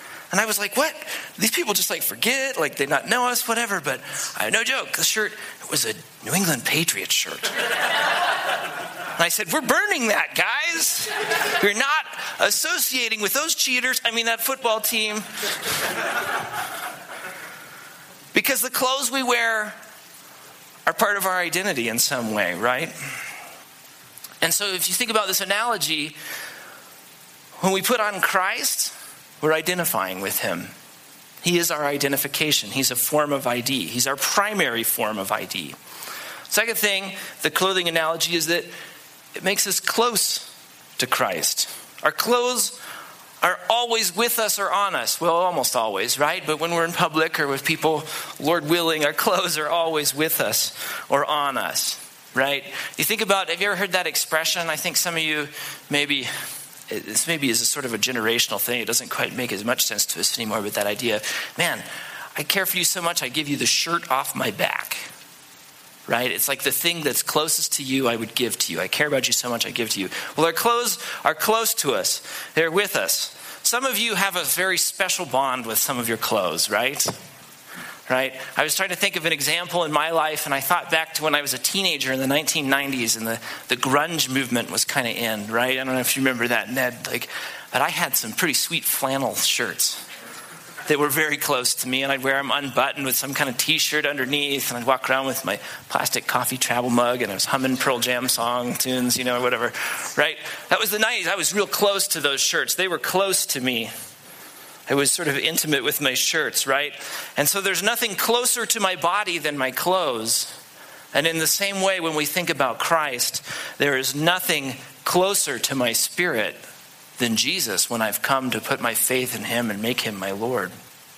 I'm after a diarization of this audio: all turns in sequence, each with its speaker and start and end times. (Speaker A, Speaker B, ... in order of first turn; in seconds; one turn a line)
Speaker A: 0.3-7.6
Speaker A: 9.1-15.3
Speaker A: 18.3-19.8
Speaker A: 20.9-22.9
Speaker A: 24.4-26.1
Speaker A: 27.6-30.7
Speaker A: 31.4-35.8
Speaker A: 36.5-38.7
Speaker A: 39.4-42.8
Speaker A: 43.4-56.3
Speaker A: 56.9-61.8
Speaker A: 62.4-65.0
Speaker A: 66.1-77.1
Speaker A: 78.1-90.0
Speaker A: 90.9-103.9
Speaker A: 104.9-110.5
Speaker A: 111.1-116.6
Speaker A: 117.2-120.7